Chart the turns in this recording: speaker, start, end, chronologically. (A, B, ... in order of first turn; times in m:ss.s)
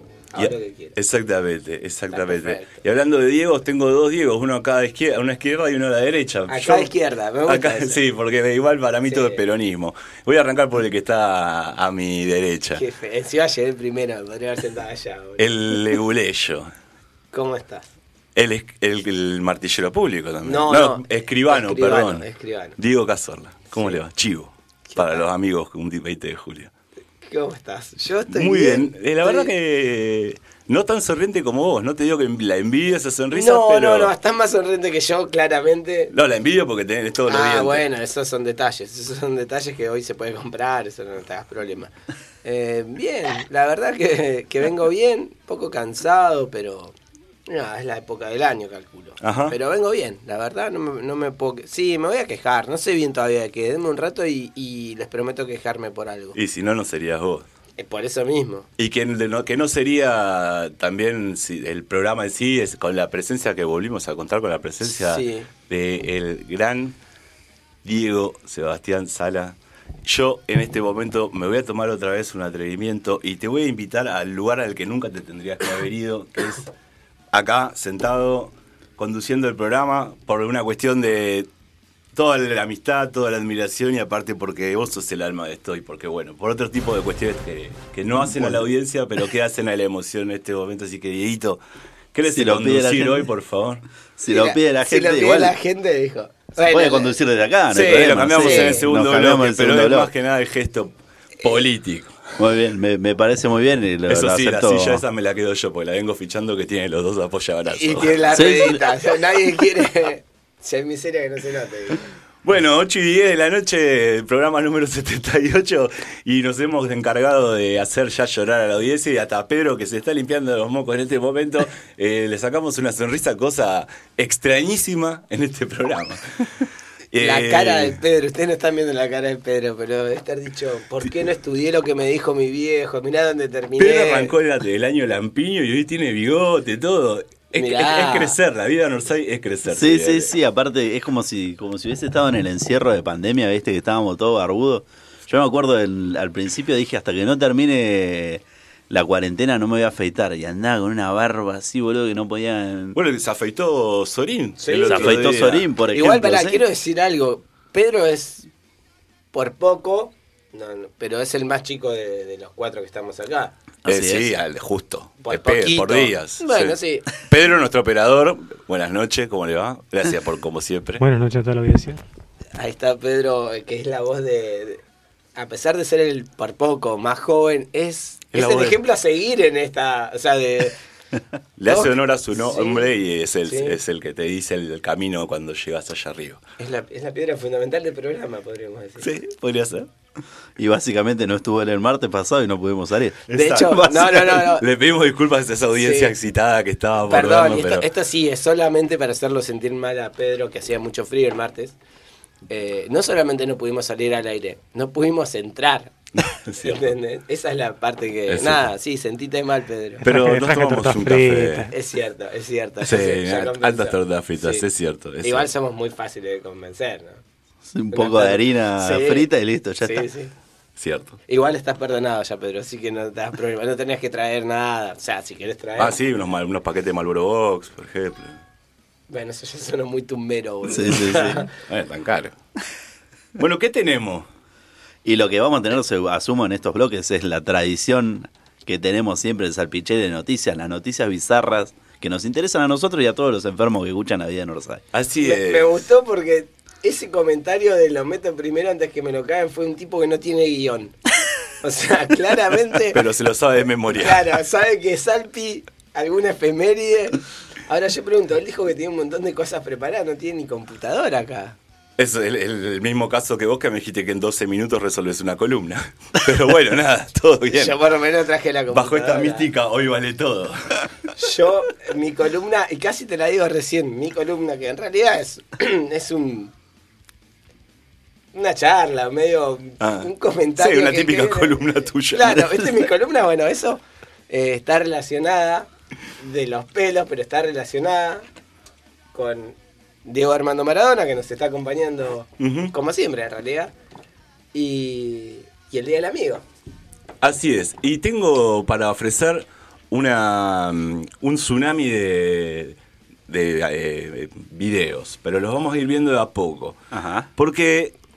0:00.3-0:01.0 A
0:00.4-0:06.9 B
0:02.1-0:02.8 A
0:06.5-0:08.0 A
0:07.5-0:12.8 B
0:09.1-0:09.4 A
0:12.8-0:15.8 A
0:15.4-0:16.7 B
0:17.3-0:17.9 A
0:18.4-0:22.3 B
0:20.4-0:22.8 A
0:22.8-0:26.7 B
0:23.7-0:24.0 A
0:24.9-0:25.2 A
0:27.2-0:29.5 A
0:28.3-0:34.1 B
0:33.3-0:36.1 A
0:36.1-0:37.9 B
0:37.3-0:41.9 A
0:42.4-0:47.0 A
0:47.5-0:56.4 A
0:49.2-0:49.6 B
0:56.3-0:57.4 B
0:57.8-0:58.7 A
0:58.8-1:07.0 B
1:04.8-1:05.5 A
1:07.8-1:16.7 B
1:17.3-1:21.5 B
1:22.1-1:31.6 B
1:28.2-1:28.6 C
1:32.1-1:33.8 B
1:32.3-1:33.3 C
1:34.2-1:35.6 C
1:34.3-1:37.2 A
1:36.6-1:40.1 C
1:37.7-1:38.9 A
1:37.7-1:42.2 B
1:42.4-1:45.0 C
1:44.1-1:48.6 B
1:47.7-1:52.1 A
1:48.3-1:48.8 C
1:52.4-2:06.2 B
2:07.1-2:08.0 B
2:07.2-2:14.3 A
2:13.8-2:20.3 B
2:17.6-2:18.4 A
2:19.7-2:33.0 C
2:32.9-2:35.7 B
2:34.6-2:38.5 A
2:34.8-2:36.6 C
2:39.3-2:43.5 A
2:43.8-2:44.4 C
2:43.8-2:51.0 B
2:45.2-2:47.1 A
2:51.0-2:52.0 D
2:52.6-2:54.8 A
2:55.4-3:00.8 A
2:58.3-2:58.8 B
3:01.6-3:06.4 B
3:01.7-3:02.9 A
3:03.4-3:03.8 A
3:06.6-3:09.1 A
3:09.0-3:09.9 B
3:10.6-3:14.6 C
3:13.3-3:17.9 B
3:13.3-3:14.6 A
3:15.7-3:16.2 A
3:17.1-3:21.8 A
3:22.5-3:30.0 A
3:26.2-3:26.9 B
3:28.3-3:28.7 B
3:30.0-3:31.7 D
3:30.0-3:31.7 B
3:31.7-3:34.7 A
3:32.8-3:35.5 B
3:35.2-3:37.2 A
3:37.7-3:40.1 C
3:37.9-3:39.3 A
3:39.8-3:40.3 A
3:40.8-3:41.2 B
3:41.3-3:46.0 A
3:45.8-3:48.4 B
3:49.1-3:51.5 A
3:50.6-3:51.4 C
3:51.6-3:52.4 B
3:53.4-3:54.3 B
3:55.0-4:04.8 C
4:04.9-4:05.9 B
4:05.2-4:11.0 A
4:11.6-4:13.0 A
4:12.9-4:14.3 B
4:13.9-4:21.6 A
4:22.0-4:27.8 B
4:27.5-4:29.5 A
4:28.7-4:30.9 B
4:31.2-4:36.5 A
4:38.3-4:45.7 A
4:39.8-4:42.6 B
4:46.2-4:48.3 A
4:49.1-4:53.7 A
4:52.4-4:52.7 B
4:54.5-4:56.4 A
4:57.2-5:02.8 B
5:03.3-5:06.8 B
5:06.9-5:07.3 C
5:07.4-5:08.0 B